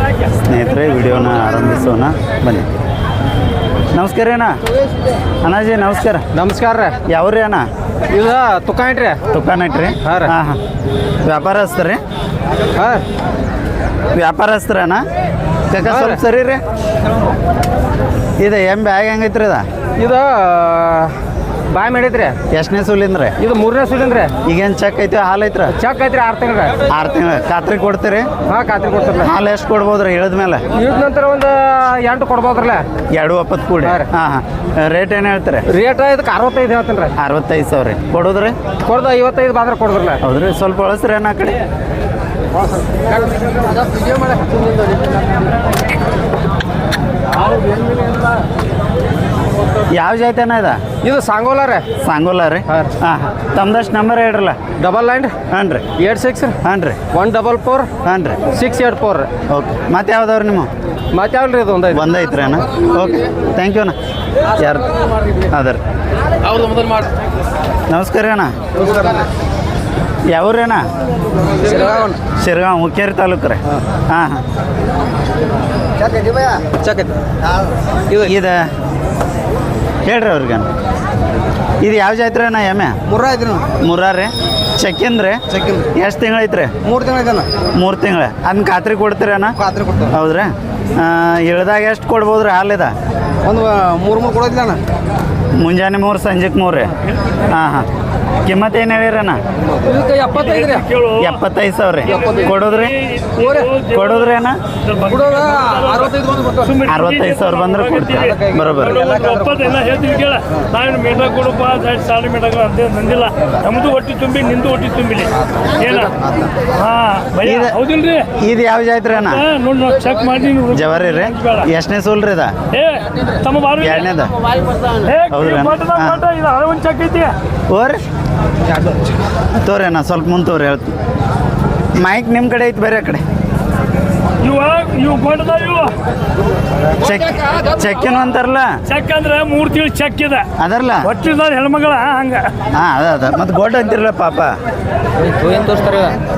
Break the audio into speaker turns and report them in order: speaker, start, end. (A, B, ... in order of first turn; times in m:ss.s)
0:00.4-0:02.7 A
0:03.9-0:04.6 A
0:05.4-0:06.2 A
0:06.4-0:06.9 B
0:07.1-0:07.7 A
0:08.2-0:09.2 B
0:09.3-0:10.6 A
0:11.2-0:12.0 A
0:12.8-0:13.0 B
0:14.1-0:15.0 A
0:15.7-0:16.6 A
0:18.4-0:19.6 A
0:20.0-0:21.1 B
0:21.7-0:22.3 B
0:22.5-0:23.3 A
0:23.4-0:24.3 B
0:24.4-0:25.8 A
0:25.8-0:26.7 B
0:26.9-0:28.3 A
0:28.5-0:29.2 B
0:29.2-0:30.6 A
0:30.8-0:32.8 B
0:33.1-0:35.6 A
0:35.8-0:37.1 B
0:37.2-0:38.6 A
0:38.9-0:40.2 B
0:40.2-0:41.6 A
0:49.9-0:50.8 A
0:51.0-0:51.8 B
0:52.0-0:54.6 A
0:54.8-0:55.3 B
0:55.5-0:55.8 A
0:56.0-0:56.5 B
0:56.6-0:57.0 A
0:57.1-0:57.9 B
0:58.0-0:58.4 A
0:58.6-0:59.3 B
0:59.5-1:00.7 A
1:01.1-1:02.0 B
1:01.9-1:04.0 A
1:04.5-1:04.9 A
1:05.5-1:05.8 A
1:07.9-1:08.5 A
1:10.3-1:10.8 A
1:12.4-1:14.4 A
1:16.1-1:16.6 C
1:18.2-1:18.7 A
1:20.0-1:20.7 A
1:21.8-1:23.0 A
1:23.1-1:23.6 C
1:23.8-1:25.4 A
1:25.5-1:25.8 C
1:25.9-1:26.7 A
1:26.8-1:27.5 C
1:27.8-1:29.6 A
1:29.6-1:30.1 C
1:30.1-1:32.9 A
1:33.4-1:34.8 C
1:35.6-1:36.9 A
1:37.5-1:37.9 A
1:38.4-1:39.4 A
1:40.0-1:40.7 B
1:40.2-1:41.2 D
1:41.2-1:43.0 A
1:43.2-1:44.0 D
1:43.8-1:44.6 A
1:44.9-1:56.1 D
1:46.1-1:46.5 C
1:46.8-1:49.1 A
1:56.8-1:58.2 D
1:57.4-1:57.8 A
1:58.4-1:59.4 A
1:59.5-2:00.8 D
2:00.7-2:02.5 A
2:02.8-2:04.0 D
2:03.8-2:04.3 A
2:05.0-2:07.3 D
2:05.3-2:06.2 A
2:07.7-2:08.0 A
2:09.6-2:10.9 A
2:12.0-2:13.2 A
2:14.4-2:15.9 D
2:17.0-2:18.8 A
2:18.9-2:20.4 D
2:20.6-2:21.1 A
2:21.0-2:22.5 D
2:22.7-2:24.6 A
2:25.4-2:26.1 B